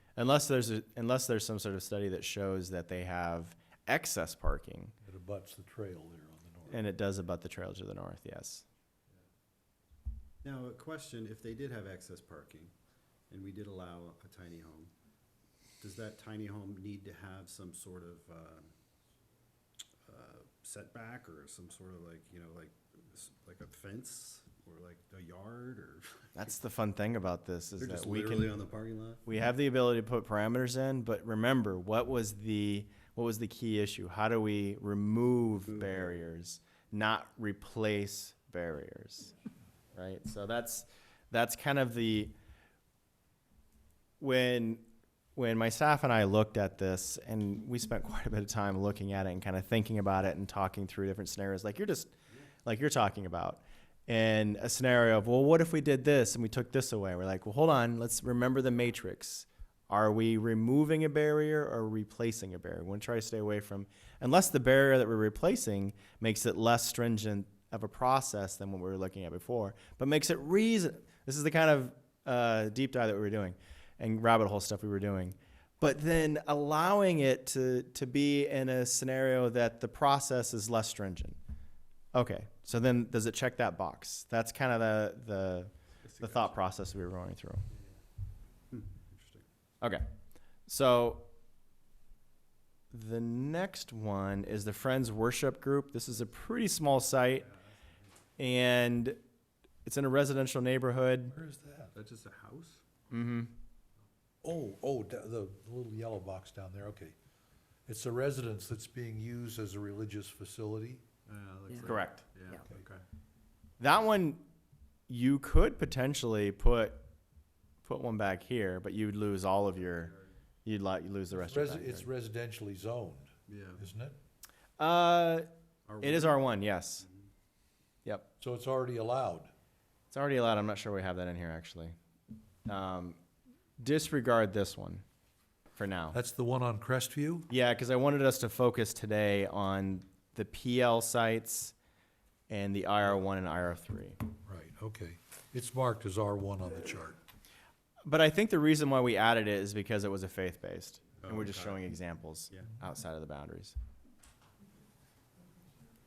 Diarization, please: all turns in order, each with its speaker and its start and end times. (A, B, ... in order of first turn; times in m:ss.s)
0:00.2-0:04.9 A
0:05.0-0:06.8 B
0:06.7-0:08.6 A
0:10.4-0:12.7 C
0:13.3-0:14.9 C
0:15.8-0:18.7 C
0:20.0-0:26.5 C
0:26.3-0:28.5 A
0:27.8-0:29.2 C
0:29.2-0:39.3 A
0:39.9-0:42.3 A
0:44.2-0:44.8 A
0:45.4-0:52.1 A
0:52.6-1:21.4 A
1:22.1-1:27.6 A
1:26.0-1:26.6 C
1:28.7-1:29.4 C
1:29.8-1:30.0 A
1:30.7-1:31.3 A
1:32.9-1:37.5 A
1:38.4-1:39.2 A
1:39.8-1:41.3 A
1:41.3-1:41.9 B
1:41.9-1:42.8 C
1:43.1-1:43.5 A
1:44.4-1:47.2 B
1:47.9-1:51.0 B
1:51.3-1:53.0 C
1:51.8-1:52.2 A
1:53.8-1:54.4 A
1:55.1-1:57.1 A
1:57.8-2:00.1 A
2:00.6-2:02.1 A
2:01.3-2:04.2 B
2:03.5-2:03.8 C
2:04.8-2:05.5 A
2:05.9-2:06.4 C
2:06.0-2:07.0 A
2:08.4-2:09.5 B
2:10.1-2:12.0 A
2:12.7-2:13.2 A
2:13.8-2:15.0 A
2:15.8-2:16.2 A
2:16.1-2:17.5 B
2:17.5-2:21.7 A
2:22.5-2:24.2 A
2:24.4-2:27.2 B
2:28.1-2:33.7 A
2:31.2-2:31.8 C